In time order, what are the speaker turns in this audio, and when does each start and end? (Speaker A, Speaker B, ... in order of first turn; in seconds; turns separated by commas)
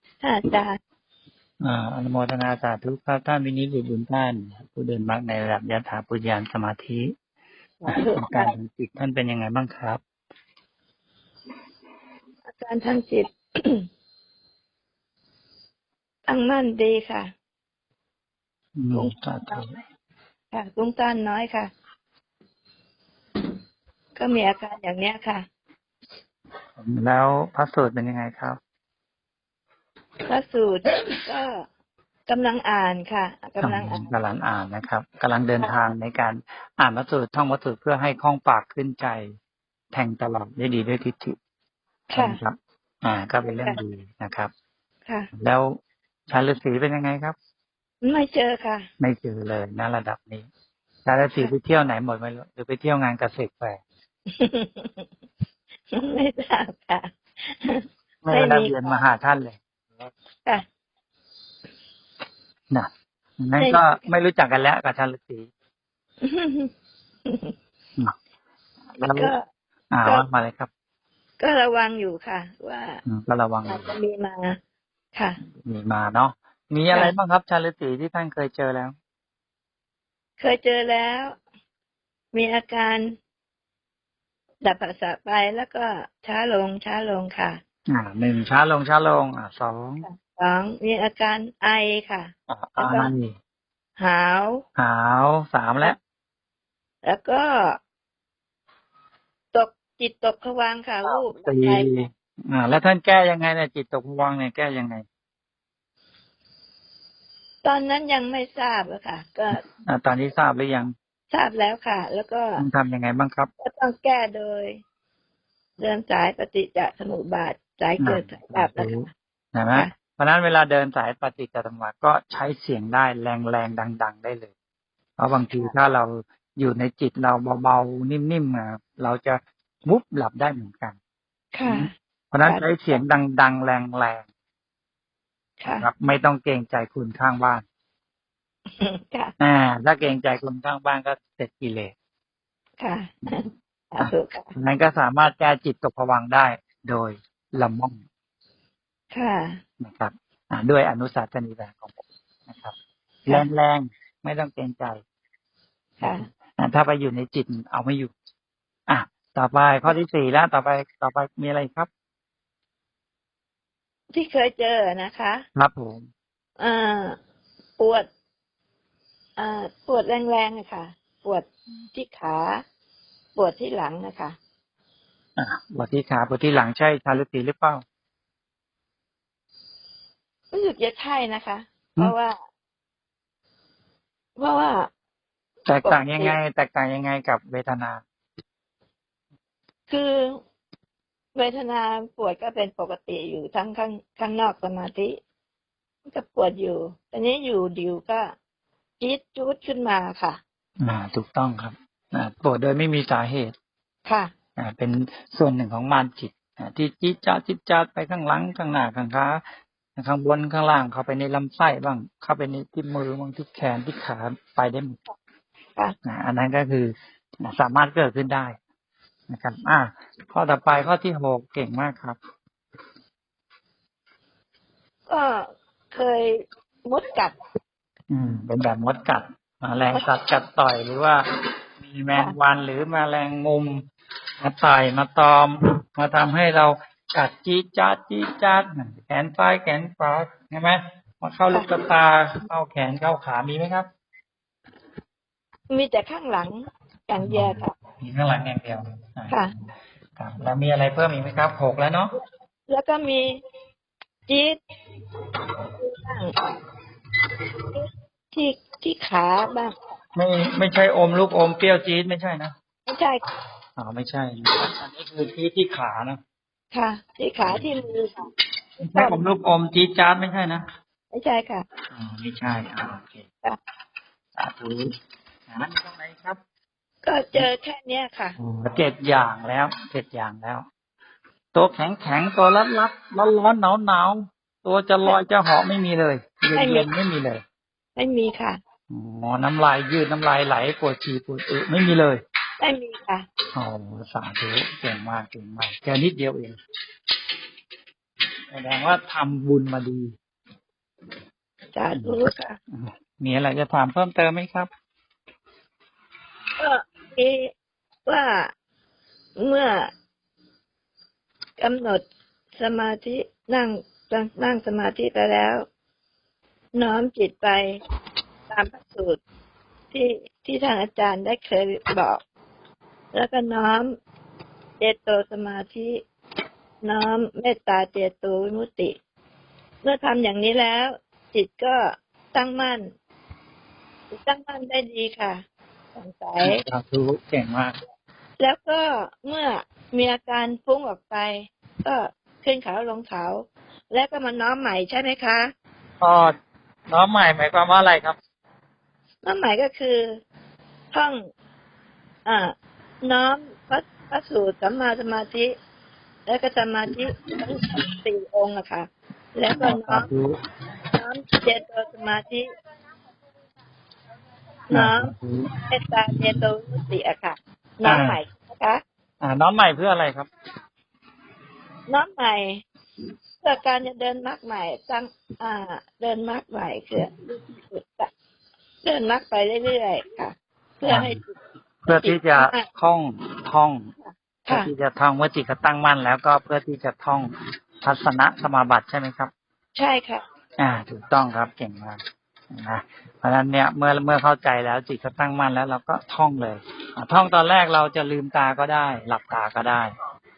Speaker A: 0.2-0.8, Speaker B: 1.6-7.1, Speaker A: 7.8-8.5, Speaker B: 7.9-10.0, Speaker A: 12.5-13.9, Speaker A: 16.3-17.3, Speaker B: 18.8-19.7, Speaker A: 18.9-19.6, Speaker A: 20.5-21.7, Speaker A: 24.2-25.4, Speaker B: 26.8-28.6, Speaker A: 30.3-31.6, Speaker A: 32.3-34.1, Speaker B: 33.6-39.3, Speaker B: 39.9-41.4, Speaker A: 42.1-42.4, Speaker B: 42.1-44.5, Speaker A: 43.4-43.8, Speaker B: 45.3-45.7, Speaker B: 46.3-47.4, Speaker A: 48.0-48.9, Speaker B: 49.0-50.5, Speaker B: 51.0-53.8, Speaker A: 54.3-55.1, Speaker A: 55.9-59.0, Speaker B: 58.2-59.6, Speaker B: 63.4-65.5, Speaker A: 63.6-64.0, Speaker A: 66.2-66.7, Speaker A: 67.3-67.5, Speaker B: 69.0-69.3, Speaker A: 69.1-69.4, Speaker B: 69.9-70.7, Speaker A: 71.4-73.0, Speaker B: 73.1-73.9, Speaker A: 73.7-74.6, Speaker A: 75.1-75.4, Speaker B: 75.6-78.9, Speaker A: 80.4-81.4, Speaker A: 82.3-83.2, Speaker A: 84.6-87.6, Speaker B: 87.9-90.1, Speaker A: 90.0-93.1, Speaker B: 92.5-93.3, Speaker A: 94.0-94.6, Speaker B: 94.8-96.0, Speaker A: 97.0-97.8, Speaker A: 99.5-101.9, Speaker B: 101.4-105.0, Speaker A: 107.6-109.6, Speaker B: 109.5-110.9, Speaker A: 111.3-112.6, Speaker B: 112.6-113.5, Speaker A: 113.6-114.8, Speaker A: 115.8-118.9, Speaker B: 118.0-124.5, Speaker B: 125.2-131.0, Speaker A: 131.5-131.9, Speaker B: 131.7-134.3, Speaker A: 135.6-135.9, Speaker B: 135.7-137.6, Speaker A: 138.8-139.3, Speaker B: 139.4-141.9, Speaker A: 142.8-144.5, Speaker B: 144.0-148.0, Speaker A: 149.1-149.6, Speaker B: 149.8-152.8, Speaker B: 153.3-155.0, Speaker A: 156.0-156.3, Speaker B: 156.0-158.1, Speaker B: 158.9-161.9, Speaker A: 164.1-165.4, Speaker B: 165.6-166.1, Speaker A: 166.6-167.2, Speaker A: 167.8-168.1, Speaker A: 169.4-172.6, Speaker A: 173.3-174.4, Speaker B: 175.4-177.8, Speaker A: 180.5-182.4, Speaker A: 184.4-184.9, Speaker B: 185.7-188.0, Speaker A: 185.8-186.4, Speaker A: 189.9-190.4, Speaker A: 191.3-195.2, Speaker A: 196.1-198.3, Speaker A: 199.0-200.4, Speaker B: 200.8-203.5, Speaker A: 204.1-204.3, Speaker B: 204.6-209.4, Speaker B: 210.0-215.0, Speaker B: 216.0-218.6, Speaker B: 219.3-222.2, Speaker A: 225.1-227.4, Speaker B: 228.1-231.2, Speaker B: 231.8-233.8, Speaker B: 234.4-243.9, Speaker A: 245.7-247.8, Speaker B: 247.2-249.4, Speaker B: 250.2-252.1, Speaker A: 252.2-253.3, Speaker A: 254.3-254.6, Speaker A: 255.8-256.4, Speaker A: 257.7-259.8, Speaker B: 260.1-262.5, Speaker A: 262.9-263.2, Speaker B: 263.8-266.2, Speaker A: 266.7-268.3, Speaker B: 267.4-267.9, Speaker B: 268.8-270.6, Speaker A: 268.8-269.2, Speaker A: 271.1-271.7, Speaker B: 271.9-273.2, Speaker B: 274.4-274.9, Speaker B: 275.5-276.4, Speaker A: 277.0-278.4, Speaker B: 278.4-280.7, Speaker B: 281.5-287.4, Speaker A: 286.5-286.9, Speaker A: 288.0-288.6, Speaker B: 288.9-292.2, Speaker A: 292.6-293.3, Speaker B: 293.5-296.6, Speaker B: 298.5-300.1, Speaker A: 301.7-302.6, Speaker B: 301.9-302.2, Speaker B: 302.7-304.7, Speaker A: 306.6-307.5, Speaker A: 308.1-308.5, Speaker A: 309.4-309.9, Speaker A: 311.6-315.7, Speaker A: 316.8-317.8, Speaker A: 318.5-319.2, Speaker A: 319.9-322.2, Speaker A: 323.1-324.0, Speaker A: 324.8-326.0, Speaker A: 326.8-329.0, Speaker A: 329.8-332.9, Speaker A: 334.1-336.6, Speaker B: 336.4-337.8, Speaker A: 338.4-345.5, Speaker B: 346.0-346.3, Speaker B: 346.9-348.2, Speaker A: 349.2-350.2, Speaker A: 350.9-351.3, Speaker A: 352.3-355.6, Speaker A: 356.3-360.1, Speaker B: 359.5-360.4, Speaker A: 360.9-362.5, Speaker A: 364.7-365.1, Speaker B: 364.7-365.6, Speaker A: 365.7-368.8, Speaker B: 367.8-368.2, Speaker B: 369.2-370.3, Speaker A: 371.9-372.6, Speaker A: 373.4-378.1, Speaker A: 378.8-381.4, Speaker B: 380.9-381.2, Speaker B: 381.9-383.9, Speaker A: 381.9-382.7, Speaker A: 384.0-384.7, Speaker B: 384.5-387.3, Speaker B: 387.8-389.3, Speaker A: 389.8-390.2, Speaker B: 390.6-399.9